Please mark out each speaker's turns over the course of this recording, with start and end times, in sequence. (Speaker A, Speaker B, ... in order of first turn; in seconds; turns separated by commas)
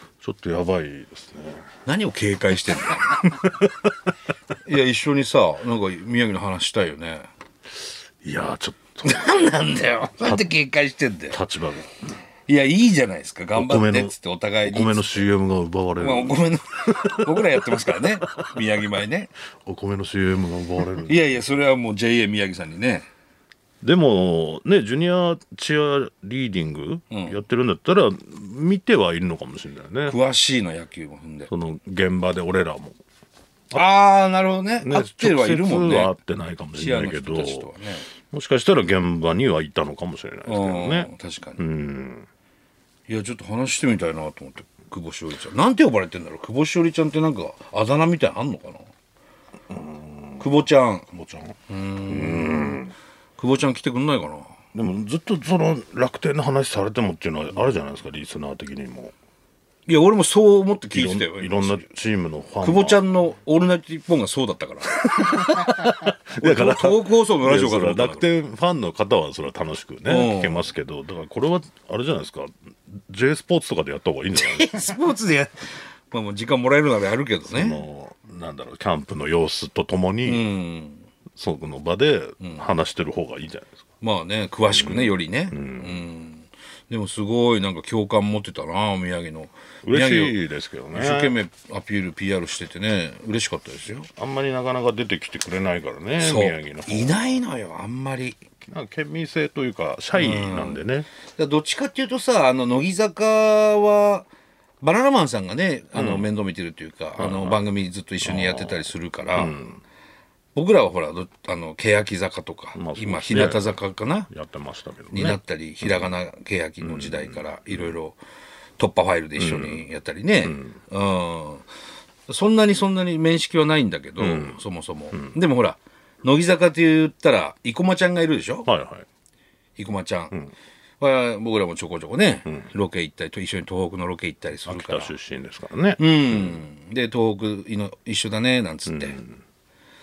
Speaker A: 0.2-1.6, Speaker B: 1.8-3.4, Speaker A: 3.3-3.7, Speaker B: 4.6-7.3, Speaker A: 8.2-9.2, Speaker B: 9.0-11.4, Speaker A: 10.2-10.5, Speaker A: 11.3-12.0, Speaker B: 12.5-15.3, Speaker A: 13.5-18.4, Speaker B: 16.0-19.3, Speaker A: 19.6-21.3, Speaker B: 21.1-23.1, Speaker A: 23.8-30.1, Speaker B: 30.1-31.5, Speaker A: 31.5-33.0, Speaker B: 33.7-36.1, Speaker A: 34.8-37.7, Speaker B: 36.8-38.1, Speaker A: 38.2-42.3, Speaker B: 40.5-41.6, Speaker B: 43.1-48.9, Speaker A: 49.7-50.5, Speaker B: 50.4-51.1, Speaker A: 51.1-51.5, Speaker B: 51.7-54.6, Speaker A: 52.1-52.9, Speaker A: 54.7-59.1, Speaker B: 59.9-61.9, Speaker A: 60.9-63.0, Speaker B: 62.6-65.5, Speaker A: 65.0-74.7, Speaker B: 66.4-68.2, Speaker B: 70.0-70.7, Speaker B: 74.3-77.8, Speaker A: 77.5-80.5, Speaker B: 80.2-81.0, Speaker A: 81.3-83.8, Speaker B: 82.4-82.7, Speaker B: 84.0-90.4, Speaker A: 84.7-86.1, Speaker A: 89.8-91.3, Speaker B: 90.9-94.1, Speaker A: 94.2-97.4, Speaker B: 96.2-98.4, Speaker A: 98.6-101.1, Speaker B: 100.1-100.8, Speaker B: 101.3-104.3, Speaker B: 104.8-109.5, Speaker A: 105.9-106.3, Speaker A: 107.2-107.6, Speaker A: 108.2-109.8, Speaker B: 110.5-114.3, Speaker A: 112.7-113.7, Speaker A: 114.3-116.2, Speaker B: 115.1-118.2, Speaker A: 116.8-117.9, Speaker B: 118.8-121.7, Speaker A: 119.4-119.8, Speaker A: 120.4-120.7, Speaker B: 122.3-128.7, Speaker A: 124.2-124.6, Speaker A: 125.1-125.4, Speaker A: 128.7-129.1, Speaker B: 129.8-130.3, Speaker B: 131.0-135.1, Speaker A: 134.7-136.6, Speaker B: 136.0-139.2, Speaker A: 138.9-139.4